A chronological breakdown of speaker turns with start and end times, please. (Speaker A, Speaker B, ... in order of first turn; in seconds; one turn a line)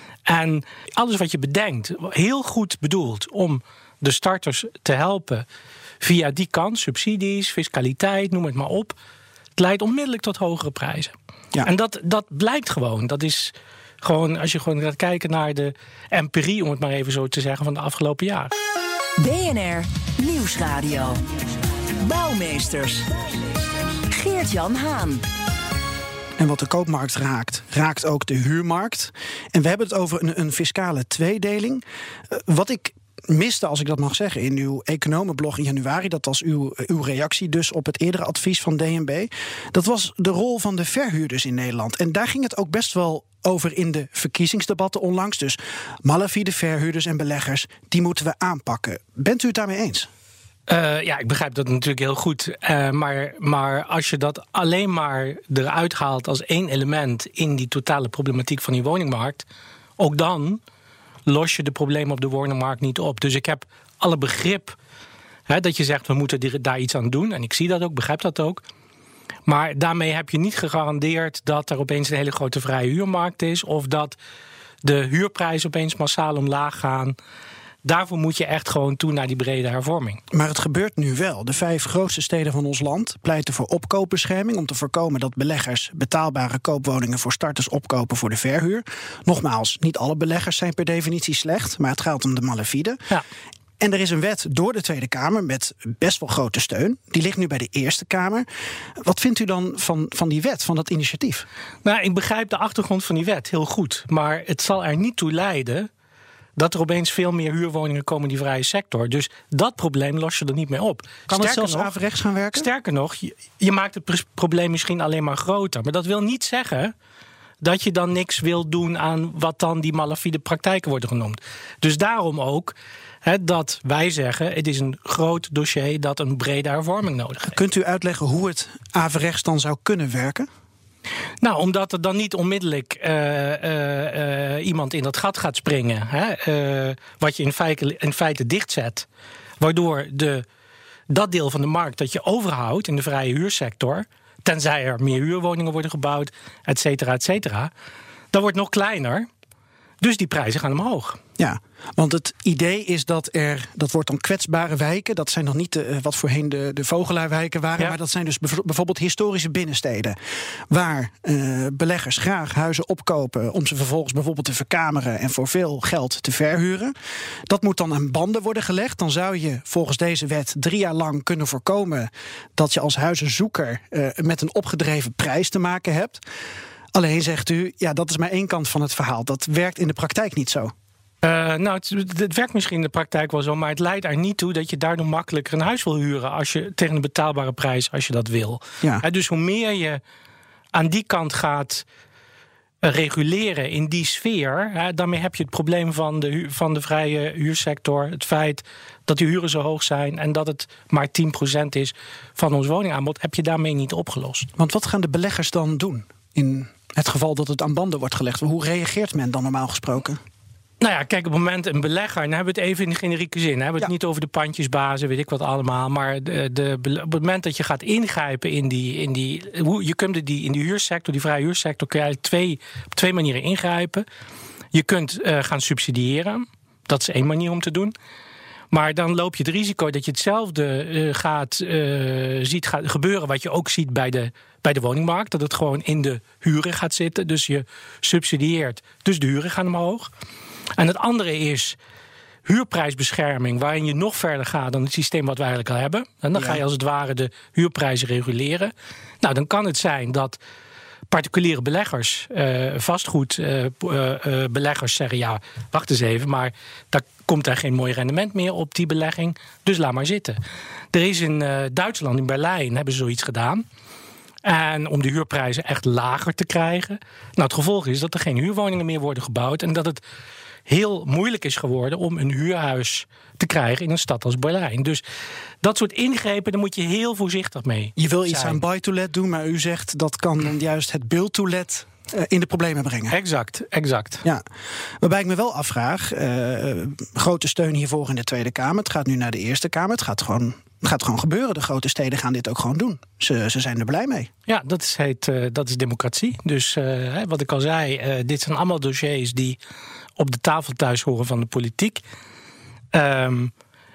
Speaker A: 0.3-5.5
Speaker A: 6.0-8.9
Speaker A: 9.6-11.1
Speaker A: 11.6-18.5
Speaker B: 19.2-21.2
Speaker B: 22.0-23.1
Speaker B: 24.1-25.2
Speaker C: 26.4-50.1
Speaker A: 50.7-59.4
Speaker A: 60.0-60.6
Speaker A: 61.3-64.8
Speaker A: 65.5-68.6
Speaker A: 69.5-74.2
Speaker A: 74.8-77.2
Speaker A: 77.8-80.2
Speaker C: 80.3-93.0
Speaker C: 93.8-98.5
Speaker C: 99.0-101.5
Speaker A: 101.8-105.9
Speaker A: 106.6-111.9
Speaker C: 111.3-112.7
Speaker A: 112.5-116.9
Speaker A: 117.6-127.5
Speaker C: 127.5-130.5
Speaker A: 131.4-139.1
Speaker A: 139.6-140.4
Speaker A: 141.1-147.7
Speaker A: 148.3-149.3
Speaker A: 150.0-151.2
Speaker C: 151.4-160.2
Speaker C: 160.7-166.9
Speaker C: 167.5-176.2
Speaker C: 176.9-180.7
Speaker A: 181.2-190.0
Speaker A: 190.7-191.8
Speaker A: 192.8-204.5
Speaker C: 204.6-210.2
Speaker A: 210.8-224.0
Speaker A: 224.7-227.9
Speaker A: 228.7-240.1
Speaker A: 240.8-241.8
Speaker A: 242.4-250.4
Speaker C: 246.3-246.6
Speaker A: 251.1-260.4
Speaker A: 260.9-263.6
Speaker A: 264.4-270.0
Speaker A: 270.7-275.0
Speaker A: 275.6-278.6
Speaker C: 278.0-283.1
Speaker A: 283.1-284.2
Speaker C: 285.0-294.3
Speaker A: 294.5-299.6
Speaker A: 300.2-302.0
Speaker A: 302.9-303.5